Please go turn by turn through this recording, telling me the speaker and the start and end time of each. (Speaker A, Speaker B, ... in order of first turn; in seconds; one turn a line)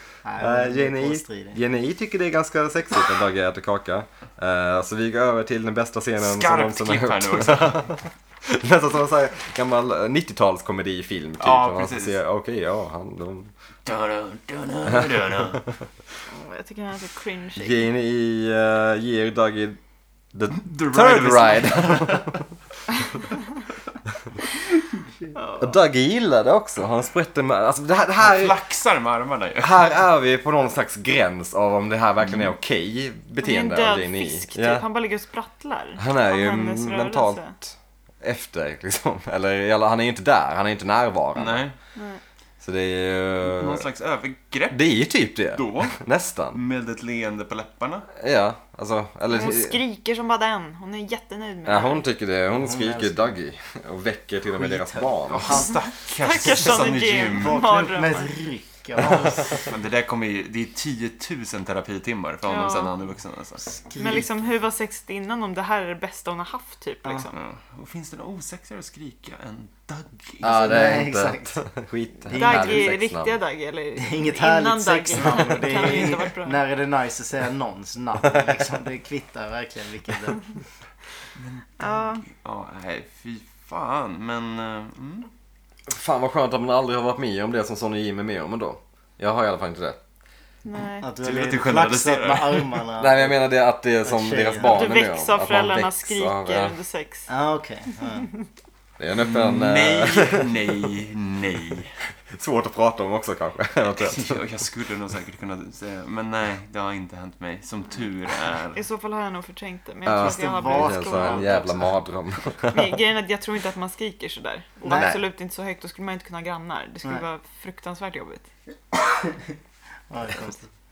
Speaker A: 0.2-1.6
Speaker B: 0.4-13.5
Speaker C: 6.2-8.0
Speaker C: 11.4-12.2
Speaker C: 13.8-15.7
Speaker D: 16.3-17.9
Speaker B: 17.6-19.8
Speaker B: 20.3-22.4
Speaker C: 20.6-22.4
Speaker D: 25.3-25.7
Speaker B: 25.6-28.6
Speaker C: 28.2-29.8
Speaker B: 29.6-34.9
Speaker D: 33.4-37.5
Speaker B: 36.0-41.7
Speaker C: 41.3-41.8
Speaker D: 41.9-42.2
Speaker B: 42.6-43.9
Speaker C: 43.4-44.9
Speaker B: 44.7-46.6
Speaker C: 45.5-48.1
Speaker B: 48.1-49.8
Speaker D: 49.3-52.0
Speaker B: 51.6-55.7
Speaker A: 52.5-53.2
Speaker A: 54.5-55.2
Speaker C: 55.3-57.6
Speaker D: 55.5-58.3
Speaker A: 57.4-59.7
Speaker C: 59.1-63.8
Speaker D: 62.5-62.9
Speaker A: 63.8-64.3
Speaker D: 64.0-67.3
Speaker C: 67.3-71.0
Speaker B: 70.4-73.4
Speaker A: 70.4-71.6
Speaker A: 72.2-72.9
Speaker D: 72.3-76.6
Speaker A: 74.0-80.6
Speaker C: 81.3-85.3
Speaker D: 81.8-82.2
Speaker B: 85.8-90.0
Speaker D: 90.6-91.1
Speaker A: 91.0-93.3
Speaker C: 91.2-92.8
Speaker B: 93.0-96.8
Speaker A: 94.0-94.7
Speaker D: 94.6-97.3
Speaker A: 97.3-98.3
Speaker B: 99.0-100.7
Speaker C: 99.1-102.0
Speaker B: 102.3-104.4
Speaker C: 104.0-108.8
Speaker D: 108.7-111.7
Speaker B: 110.0-113.0
Speaker A: 110.2-111.8
Speaker D: 112.7-118.5
Speaker A: 114.8-115.1
Speaker B: 114.9-115.2
Speaker A: 120.1-120.7